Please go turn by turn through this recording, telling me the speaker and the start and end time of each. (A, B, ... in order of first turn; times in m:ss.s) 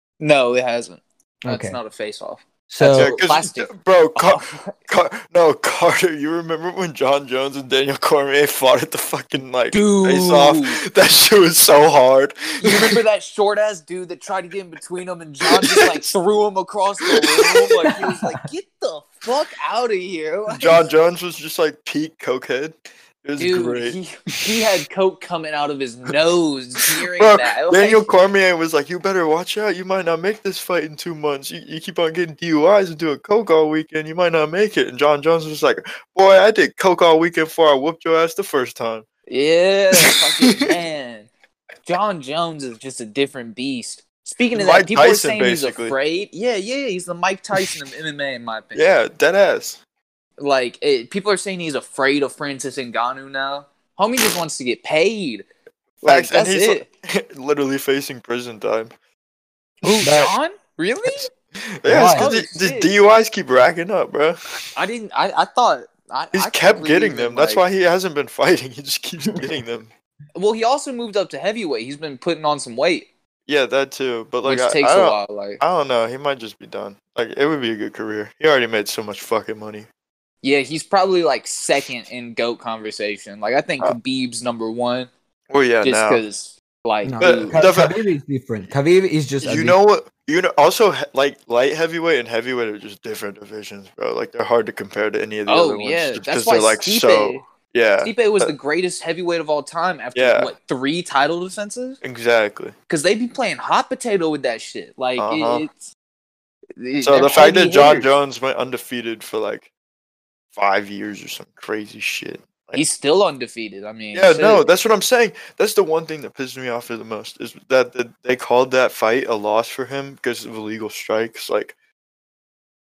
0:00.2-0:04.7 A
0:01.4-0:01.8 B
0:02.7-0:03.1 B
0:02.9-0:13.0 C
0:09.7-0:10.8 A
0:12.6-0:20.8 A
0:15.4-0:16.0 C
0:17.0-0:18.1 C
0:20.5-0:24.0 C
0:23.4-0:28.1 A
0:27.1-0:39.1 C
0:39.3-0:41.3 A
0:40.0-0:40.6 C
0:41.8-0:48.8 A
0:44.5-0:46.0 C
0:48.7-0:49.8 C
0:50.4-0:55.5 A
0:56.0-0:56.8 A
0:56.0-0:58.9 C
0:59.8-1:01.3 A
1:00.0-1:00.3 C
1:01.8-1:04.6 C
1:01.8-1:02.3 B
1:02.1-1:02.9 A
1:04.7-1:07.6 A
1:06.3-1:09.9 C
1:10.3-1:13.1 A
1:13.5-1:19.9 C
1:14.4-1:15.6 A
1:20.4-1:25.1 A
1:25.5-1:26.2 C
1:25.8-1:27.6 A
1:27.0-1:29.8 B
1:27.2-1:28.0 C
1:29.4-1:38.5 C
1:35.5-1:37.4 A
1:38.0-1:42.0 A
1:40.1-1:40.5 C
1:42.0-1:42.7 C
1:42.9-1:45.9 A
1:45.2-1:45.6 C
1:46.8-1:48.1 A
1:47.0-1:49.7 C
1:50.5-1:52.8 C
1:52.7-1:54.6 A
1:54.1-2:01.7 C